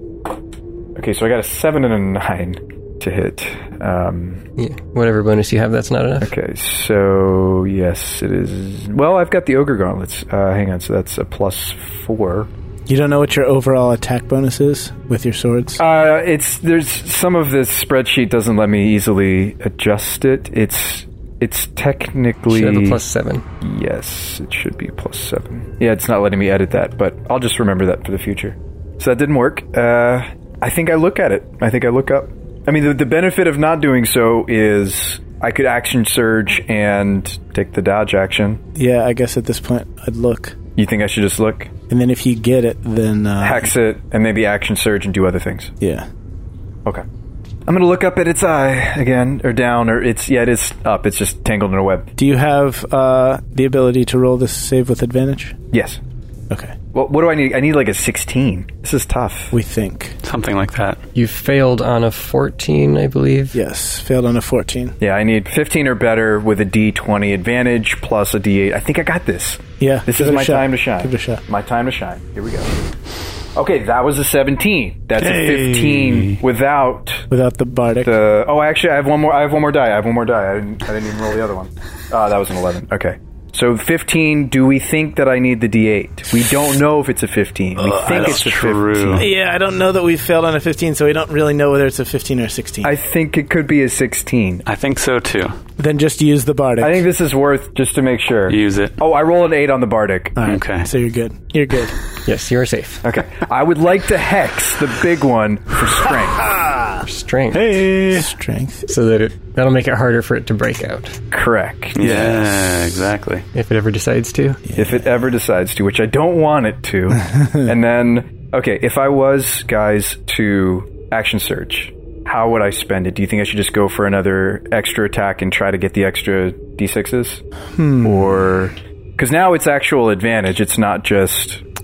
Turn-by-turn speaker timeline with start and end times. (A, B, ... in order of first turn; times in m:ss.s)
0:01.0-0:04.4 A
0:04.6-0:06.3 B
0:06.2-0:12.5 A
0:12.9-0:15.8 C
0:15.8-0:23.0 A
0:22.5-0:23.4 B
0:23.6-0:38.6 A
0:38.8-0:40.6 C
0:40.8-0:41.7 A
0:41.9-0:43.7 C
0:43.4-0:45.7 A
0:45.8-0:46.1 C
0:47.7-0:52.1 A
0:52.2-0:55.6 C
0:55.7-0:56.0 A
0:56.5-0:56.8 C
0:56.9-0:59.5 A
0:59.5-1:00.2 C
1:00.2-1:01.0 D
1:01.2-1:03.6 B
1:03.5-1:05.0 C
1:05.0-1:12.7 A
1:09.8-1:11.4 C
1:13.6-1:17.3 A
1:15.2-1:16.4 D
1:17.3-1:18.1 C
1:18.0-1:29.3 A
1:27.8-1:29.3 D
1:29.1-1:32.9 C
1:32.8-1:34.6 A
1:34.7-1:35.6 D
1:35.8-1:37.1 C
1:36.8-1:40.4 A
1:38.5-1:39.0 D
1:40.4-1:42.0 C
1:40.4-1:40.9 D
1:42.2-1:43.0 B
1:43.0-1:46.6 A
1:46.5-1:46.9 C
1:47.0-1:47.8 B
1:47.5-1:48.3 D
1:48.1-1:48.9 C
1:48.9-1:51.2 B
1:51.3-1:52.5 A
1:52.0-1:53.5 D
1:53.5-1:54.6 B
1:54.7-1:55.0 C
1:54.8-2:07.4 A
2:07.8-2:08.5 C
2:08.0-2:11.6 A